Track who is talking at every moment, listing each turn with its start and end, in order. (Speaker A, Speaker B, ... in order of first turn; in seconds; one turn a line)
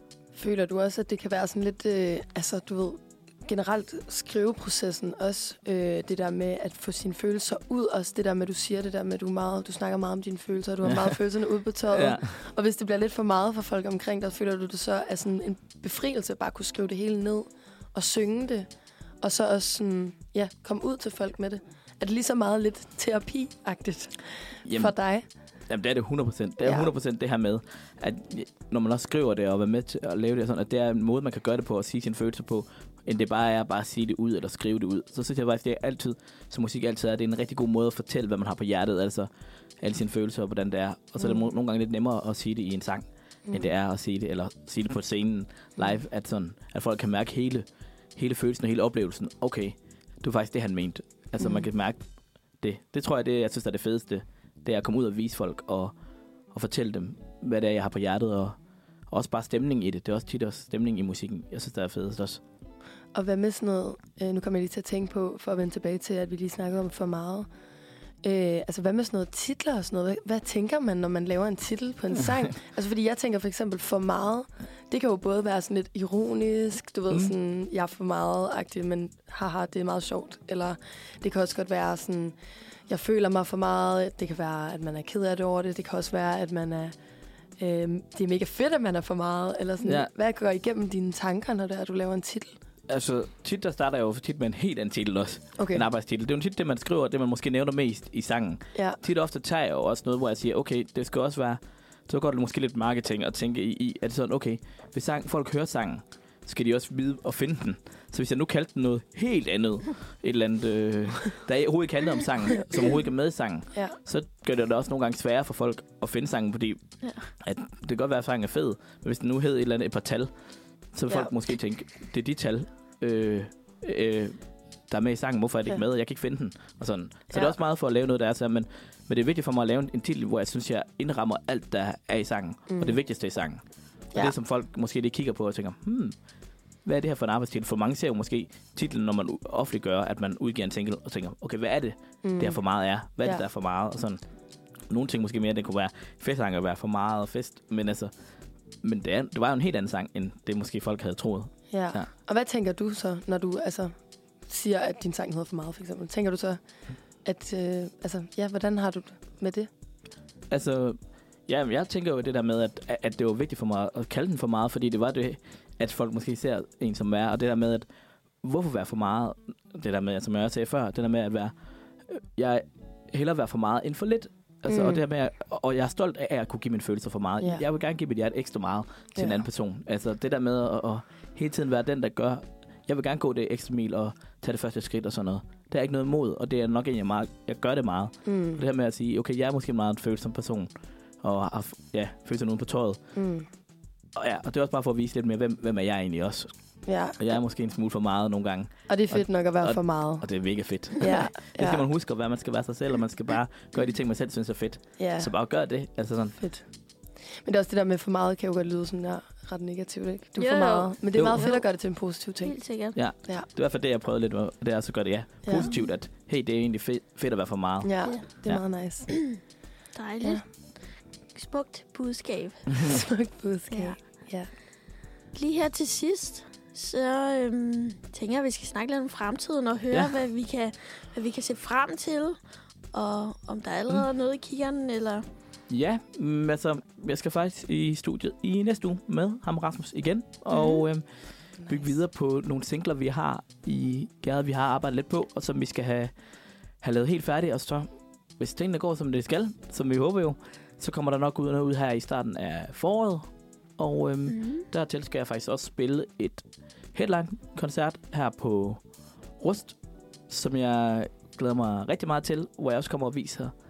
Speaker A: 0.3-18.7
Speaker B: 11.9-12.3
Speaker A: 19.2-25.2
Speaker B: 24.6-24.9
Speaker B: 25.7-39.3
Speaker A: 26.6-26.9
Speaker B: 39.8-52.0
Speaker A: 41.2-41.5
Speaker A: 43.5-43.7
Speaker A: 51.4-51.7
Speaker B: 52.6-55.9
Speaker B: 56.5-58.6
Speaker B: 59.1-62.4
Speaker A: 63.1-67.5
Speaker A: 68.2-87.0
Speaker A: 87.6-92.6
Speaker B: 89.8-90.1
Speaker B: 92.9-116.8
Speaker A: 95.6-95.9
Speaker B: 117.4-120.3
Speaker B: 120.9-124.4
Speaker B: 124.9-133.6
Speaker A: 132.7-133.0
Speaker B: 134.1-136.2
Speaker B: 136.8-144.2
Speaker A: 142.2-142.6
Speaker B: 144.9-148.1
Speaker B: 148.8-152.1
Speaker A: 151.7-153.9
Speaker A: 154.5-156.6
Speaker A: 157.2-159.7
Speaker B: 160.5-167.9
Speaker B: 168.4-171.5
Speaker B: 172.1-190.7
Speaker A: 174.7-175.0
Speaker A: 179.2-179.5
Speaker A: 188.2-188.6
Speaker B: 191.2-193.0
Speaker A: 193.2-193.5
Speaker B: 194.2-196.5
Speaker A: 196.9-197.4
Speaker B: 197.2-206.4
Speaker A: 198.9-200.3
Speaker A: 201.0-201.8
Speaker A: 205.0-205.3
Speaker A: 206.4-206.7
Speaker A: 207.4-212.6
Speaker C: 210.4-211.6
Speaker B: 211.1-211.5
Speaker C: 212.4-213.0
Speaker B: 212.9-218.6
Speaker A: 215.4-215.7
Speaker C: 215.6-215.9
Speaker A: 217.8-219.1
Speaker C: 219.1-219.4
Speaker C: 219.9-220.4
Speaker C: 221.3-222.9
Speaker A: 222.8-224.5
Speaker C: 223.7-224.0
Speaker C: 225.3-232.4
Speaker C: 232.9-235.3
Speaker B: 235.7-241.1
Speaker C: 240.5-240.8
Speaker A: 241.6-241.9
Speaker B: 241.7-246.1
Speaker B: 246.8-253.3
Speaker B: 253.8-256.4
Speaker C: 254.3-254.7
Speaker B: 256.9-258.8
Speaker B: 259.4-259.8
Speaker B: 260.3-263.5